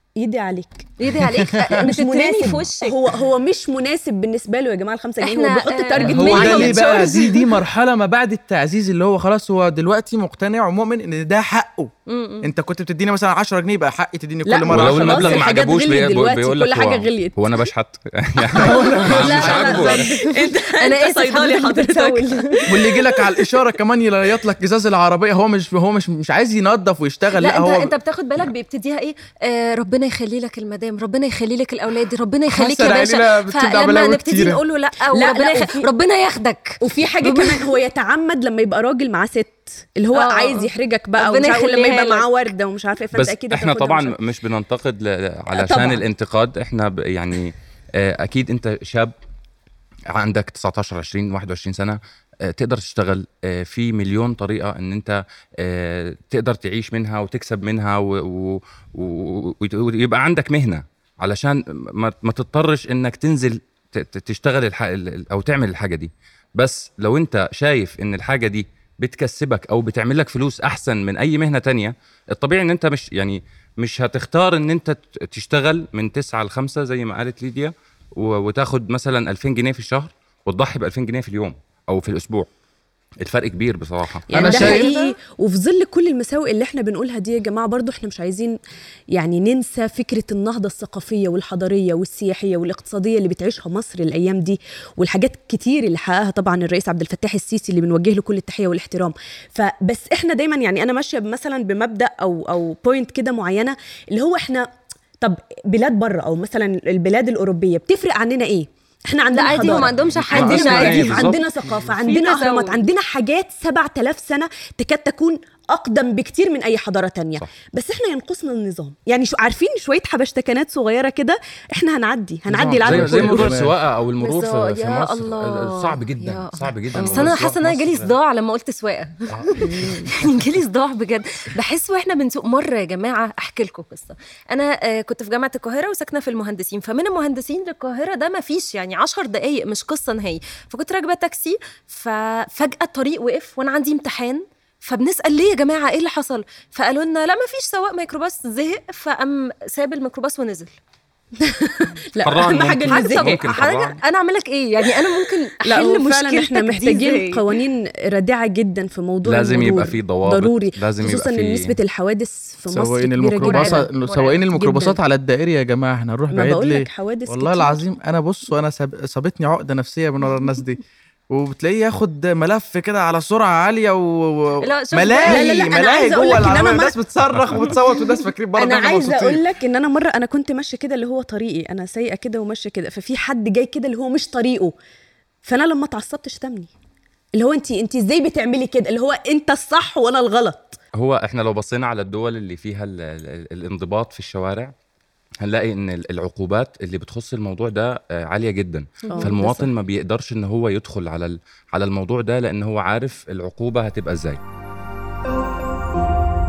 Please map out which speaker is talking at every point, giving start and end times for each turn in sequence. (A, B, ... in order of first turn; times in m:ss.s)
0:00.2-0:00.9 A
0:01.0-0:03.0 B
0:01.8-0:07.1 A
0:05.2-0:07.6 B
0:06.0-0:15.4 C
0:12.1-0:12.5 B
0:14.5-0:17.7 A
0:14.7-0:20.1 D
0:18.5-0:23.2 A
0:18.6-0:19.9 C
0:19.1-0:22.9 B
0:22.7-0:28.0 C
0:27.4-0:37.7 B
0:32.5-0:34.6 C
0:35.1-0:35.9 A
0:36.8-0:44.2 A
0:40.1-0:42.5 B
0:43.1-0:49.1 D
0:45.5-0:46.0 A
0:50.1-1:22.5 D
1:23.2-1:24.8 D
1:24.3-1:28.6 A
1:24.3-1:25.2 C
1:24.4-1:24.6 B
1:29.1-1:44.7 A
1:45.2-2:03.6 A
1:49.3-1:52.8 B
1:50.1-1:51.4 D
2:02.5-2:03.7 C
2:02.8-2:08.2 D
2:04.2-2:30.8 B
2:07.0-2:07.3 C
2:31.4-2:33.6 A
2:32.2-2:34.0 D
2:32.9-2:37.4 B
2:35.6-2:43.9 A
2:39.2-2:41.8 D
2:42.7-2:59.4 C
2:43.4-2:44.4 B
2:44.5-2:45.0 A
2:46.3-2:47.8 A
2:54.6-2:56.8 B
2:55.3-2:57.0 A
2:57.5-2:57.7 A
2:58.6-3:04.7 A
3:05.4-3:06.7 A
3:07.4-3:10.8 A
3:11.0-3:14.7 D
3:15.4-3:24.4 D
3:19.1-3:19.7 A